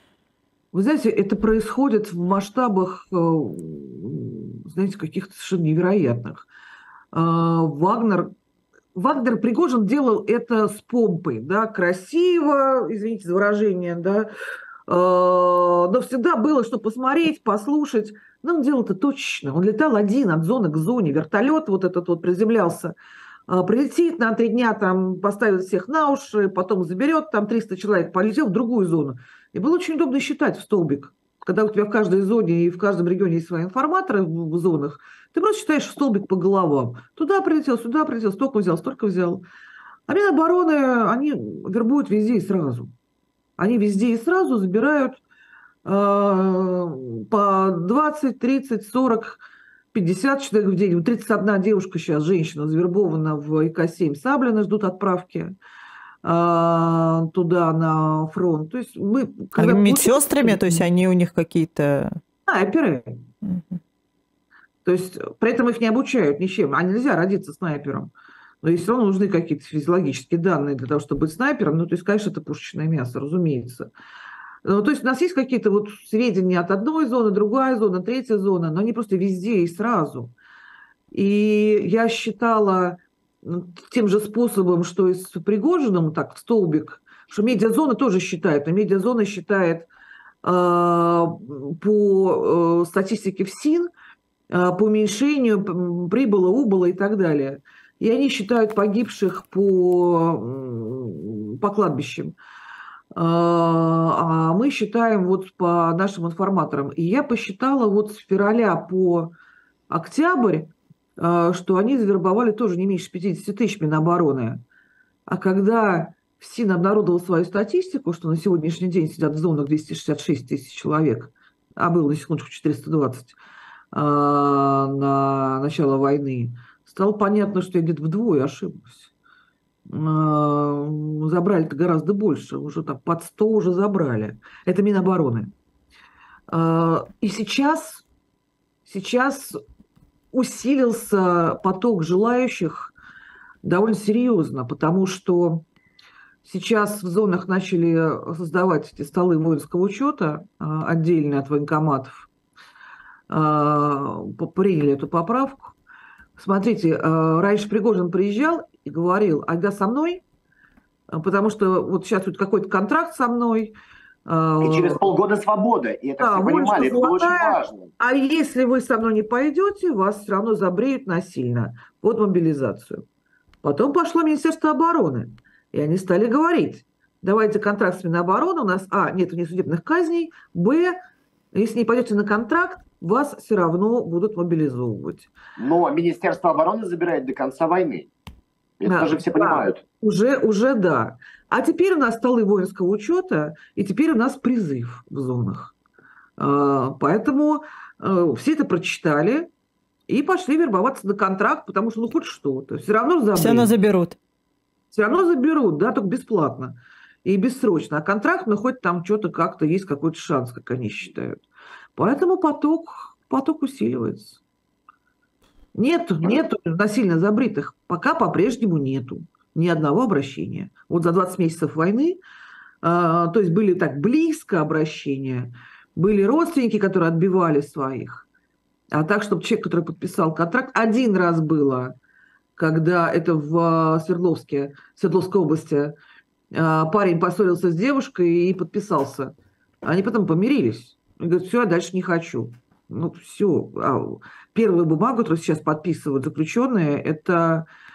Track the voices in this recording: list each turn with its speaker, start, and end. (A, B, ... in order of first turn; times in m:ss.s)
0:00.7-0:06.5 A
0:07.1-0:08.3 A
0:08.9-0:14.3 A
0:14.9-0:22.9 A
0:23.5-0:39.4 A
0:40.1-0:42.9 A
0:43.6-0:45.2 A
0:45.8-0:55.5 A
0:56.2-1:00.8 A
0:59.6-1:02.2 B
1:02.5-1:03.2 A
1:03.4-1:03.8 B
1:04.8-1:13.9 A
1:14.6-1:20.3 A
1:21.1-1:29.9 A
1:30.4-1:33.9 A
1:34.5-1:42.3 A
1:43.1-1:49.3 A
1:49.9-1:54.6 A
1:55.3-2:03.4 A
2:03.9-2:09.1 A
2:09.9-2:15.5 A
2:16.5-2:18.0 A
2:18.8-2:19.6 A
2:20.3-2:22.9 A
2:23.6-2:25.6 A
2:26.4-2:32.3 A
2:33.3-2:35.8 A
2:36.4-2:40.2 A
2:41.1-2:45.2 A
2:44.6-2:47.9 C
2:46.2-2:53.0 A
2:53.6-3:00.9 A
3:01.5-3:05.3 A
3:05.6-3:08.1 C
3:08.8-3:09.8 C
3:08.8-3:15.7 A
3:16.4-3:19.5 A
3:20.1-3:23.7 A
3:23.4-3:24.2 B
3:24.9-3:31.4 A
3:31.9-3:34.4 A
3:35.7-3:42.2 A
3:42.8-3:48.3 A
3:48.9-3:52.0 A
3:52.6-3:55.9 A
3:56.5-4:07.7 A